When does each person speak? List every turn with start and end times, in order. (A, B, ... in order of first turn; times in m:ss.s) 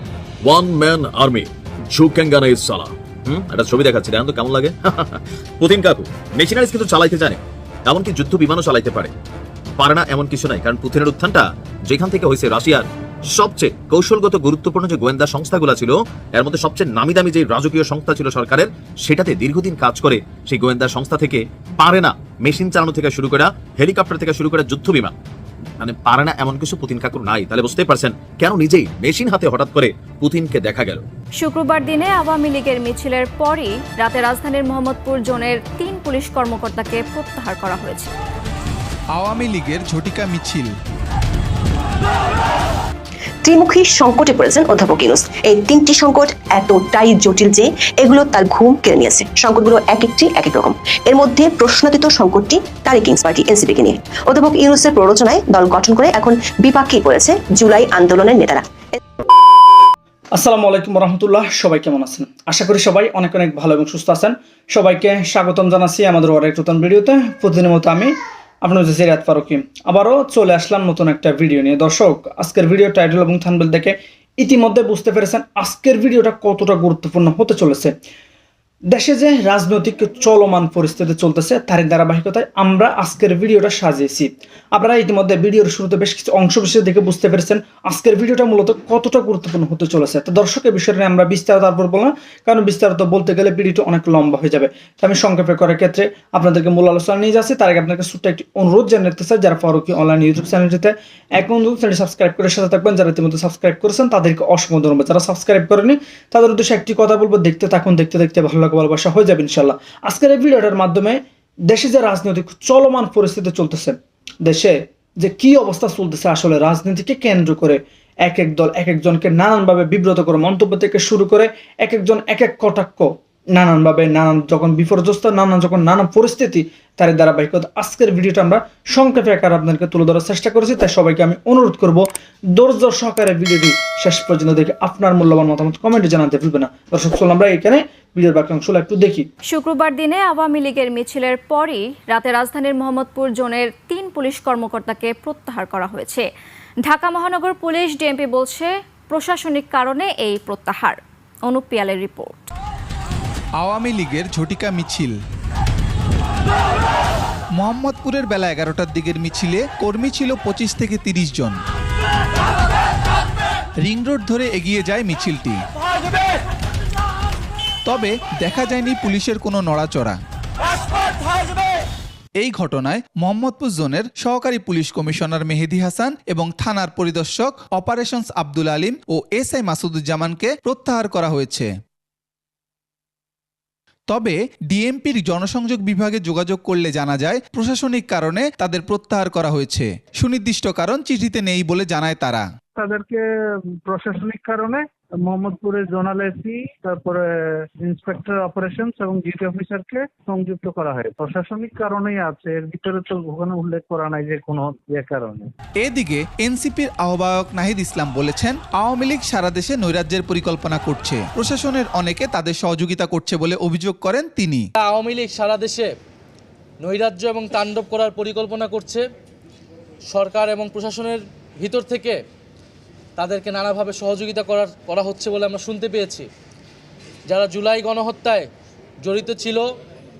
0:00.4-0:09.1 A
0:09.8-0:25.1 A
0:25.8-0:31.0 A
0:31.4-0:38.1 B
0:39.2-0:40.7 C
0:43.4-0:58.6 D
1:00.3-1:17.9 E
1:18.9-2:19.3 E
2:19.4-2:26.3 B
2:26.8-2:32.5 B
2:33.6-2:35.1 C
2:37.6-2:41.6 C
2:43.8-2:45.6 C
2:47.9-2:50.2 C
2:52.4-3:01.7 C
3:04.1-3:12.4 C
3:12.8-3:13.2 F
3:13.8-3:17.3 F
3:17.8-3:25.4 F
3:25.8-3:34.6 C
3:34.8-3:35.9 G
3:36.8-3:39.1 G
3:40.1-3:42.2 G
3:43.2-3:46.3 G
3:47.3-3:48.5 G
3:49.0-3:49.7 G